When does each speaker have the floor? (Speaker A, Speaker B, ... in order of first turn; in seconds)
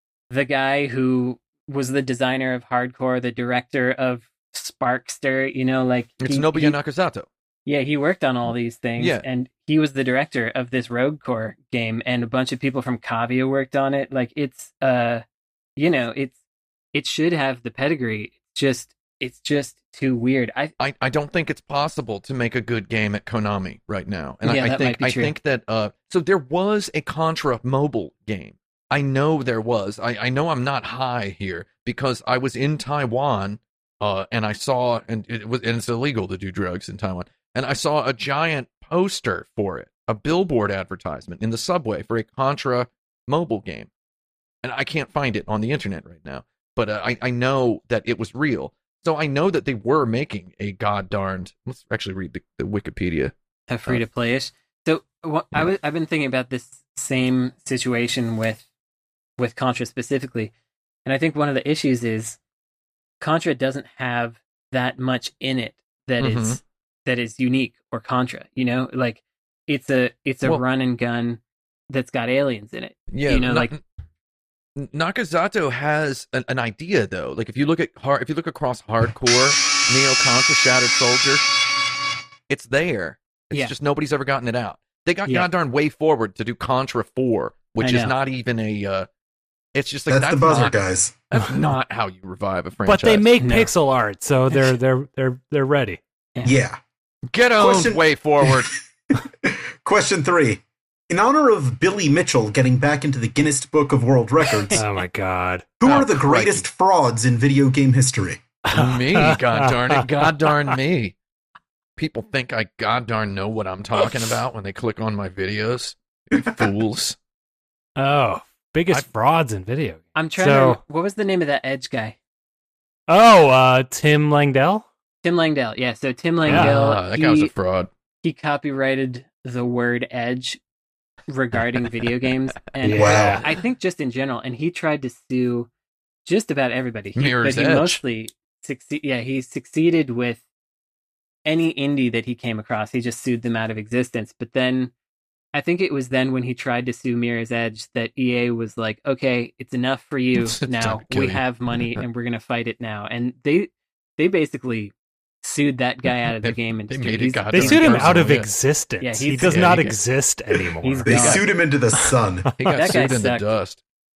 Speaker A: 0.3-6.8, 7.7-15.2, 15.8-16.4, 16.9-20.7, 24.4-25.3, 53.7-58.6, 59.4-60.5, 61.0-62.4, 63.2-73.7, 87.8-88.1, 93.4-93.7, 120.2-122.2, 125.2-127.5, 128.2-130.6, 131.3-135.7, 136.2-140.4, 141.5-144.9, 145.5-158.3, 159.0-159.9, 160.8-161.5, 162.7-163.5
Speaker B: 6.2-7.3, 9.0-9.2, 20.8-43.9, 44.6-53.3, 66.2-66.6, 73.1-73.8, 74.8-81.5, 82.5-89.1, 89.7-90.8, 91.3-93.3, 97.3-98.7, 105.8-106.6, 108.7-111.2, 112.0-117.2, 126.5-127.9, 137.2-138.0, 150.4-151.4, 156.4-158.5, 159.4-160.0, 162.6-163.8
Speaker C: 90.1-91.1, 96.4-96.8, 97.6-104.8, 105.8-108.4, 132.9-133.4, 161.1-162.5
Speaker D: 92.9-96.0, 104.7-105.7, 108.7-110.0, 118.0-120.8, 123.1-124.9, 126.5-126.8, 132.8-133.4, 157.5-161.4, 162.5-162.8